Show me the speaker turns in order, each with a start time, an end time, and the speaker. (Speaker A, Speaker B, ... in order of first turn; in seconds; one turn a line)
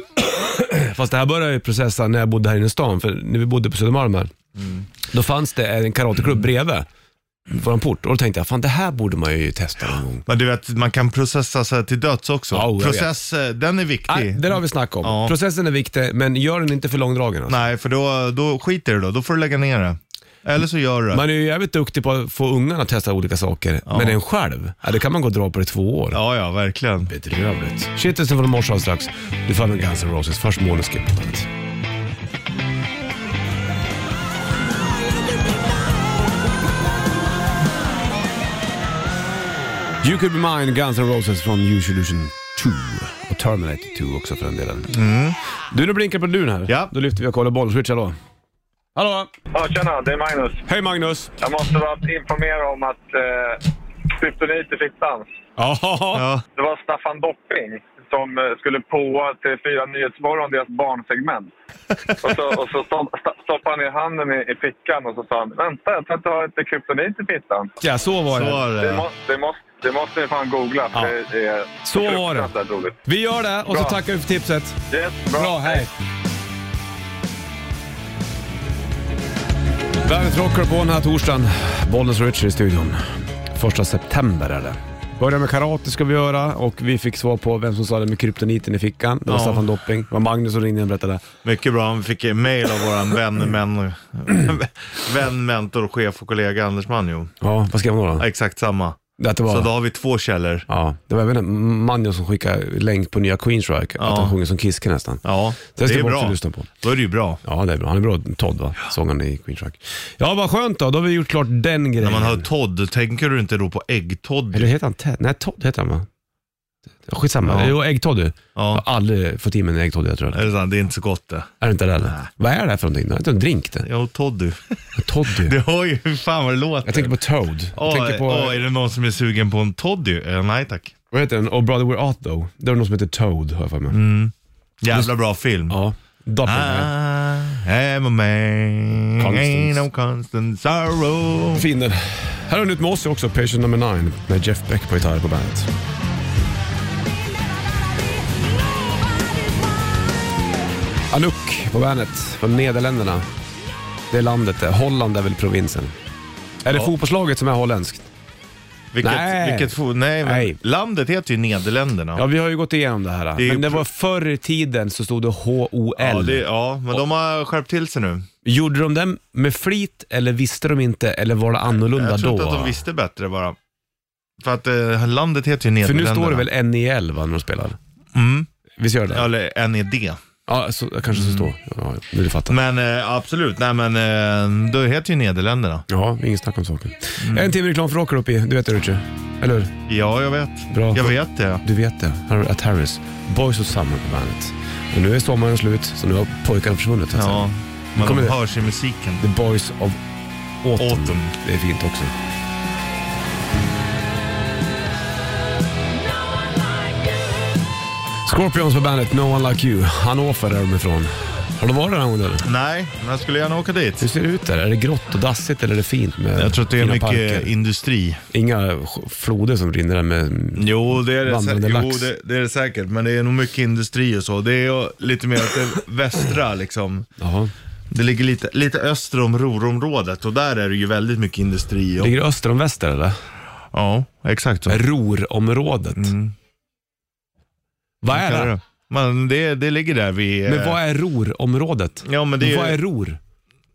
Speaker A: 0.3-4.3
Speaker A: 5.1-6.9
Speaker A: 7.5-10.2
Speaker B: 10.3-15.3
Speaker A: 12.5-13.1
Speaker A: 14.1-17.6
Speaker B: 17.5-21.2
Speaker A: 21.1-26.2
Speaker B: 23.9-24.2
Speaker B: 26.1-27.1
Speaker A: 27.1-31.5
Speaker A: 40.0-44.9
Speaker B: 44.9-45.4
Speaker A: 45.7-48.2
Speaker B: 46.7-46.9
Speaker A: 49.0-49.3
Speaker C: 49.5-50.7
Speaker A: 50.7-51.3
Speaker C: 51.4-55.3
Speaker A: 55.6-56.2
Speaker B: 56.1-56.4
Speaker C: 56.5-61.5
Speaker B: 62.1-62.4
Speaker C: 62.2-67.7
Speaker A: 67.8-68.6
Speaker B: 68.3-69.1
Speaker C: 68.7-73.0
Speaker A: 71.8-72.5
Speaker A: 73.1-74.8
Speaker C: 73.7-74.0
Speaker C: 74.9-75.9
Speaker A: 75.3-75.9
Speaker A: 80.0-83.0
Speaker A: 83.5-91.3
Speaker B: 89.3-89.7
Speaker B: 91.4-97.3
Speaker A: 97.4-98.3
Speaker B: 98.2-100.7
Speaker A: 99.2-99.7
Speaker A: 100.7-106.7
Speaker B: 104.0-104.4
Speaker B: 105.2-107.4
Speaker A: 107.4-112.5
Speaker B: 112.0-114.7
Speaker A: 114.5-116.1
Speaker A: 117.1-120.5
Speaker B: 117.4-117.8
Speaker B: 118.5-118.8
Speaker B: 120.3-121.5
Speaker A: 121.6-123.9
Speaker B: 123.8-124.8
Speaker A: 125.0-125.5
Speaker B: 125.3-127.2
Speaker A: 126.9-128.7
Speaker B: 127.7-130.9
Speaker A: 131.1-134.0
Speaker B: 133.9-135.8
Speaker A: 135.7-136.9
Speaker B: 136.4-141.7
Speaker A: 139.2-139.8
Speaker A: 141.5-145.7
Speaker A: 151.1-153.3
Speaker A: 154.1-155.9
Speaker A: 156.6-158.1
Speaker B: 158.9-162.2
Speaker A: 159.0-160.6
Speaker A: 162.2-166.4
Speaker B: 163.4-163.8
Speaker B: 166.0-168.3
Speaker A: 168.4-172.8
Speaker B: 171.9-173.6
Speaker B: 174.4-176.5
Speaker A: 175.8-177.8
Speaker B: 178.1-178.5
Speaker A: 178.8-179.3
Speaker B: 179.1-180.2
Speaker A: 180.5-182.6
Speaker B: 181.1-181.5
Speaker B: 182.5-185.9
Speaker A: 185.9-189.8
Speaker B: 187.2-187.5
Speaker B: 189.9-191.6
Speaker A: 190.7-197.5
Speaker B: 197.1-199.2
Speaker A: 198.0-198.4
Speaker A: 199.2-200.0
Speaker A: 200.6-202.1
Speaker B: 200.8-201.3
Speaker A: 208.2-212.5
Speaker B: 212.4-214.1
Speaker A: 214.0-217.5
Speaker B: 216.3-218.2
Speaker A: 218.3-222.1
Speaker B: 220.6-227.1
Speaker A: 227.2-227.5
Speaker B: 227.9-232.1
Speaker A: 232.0-233.2
Speaker B: 233.7-234.8
Speaker A: 234.7-236.1
Speaker B: 235.9-236.3
Speaker A: 238.0-238.6
Speaker B: 238.1-240.8
Speaker A: 240.5-243.2
Speaker B: 242.1-242.8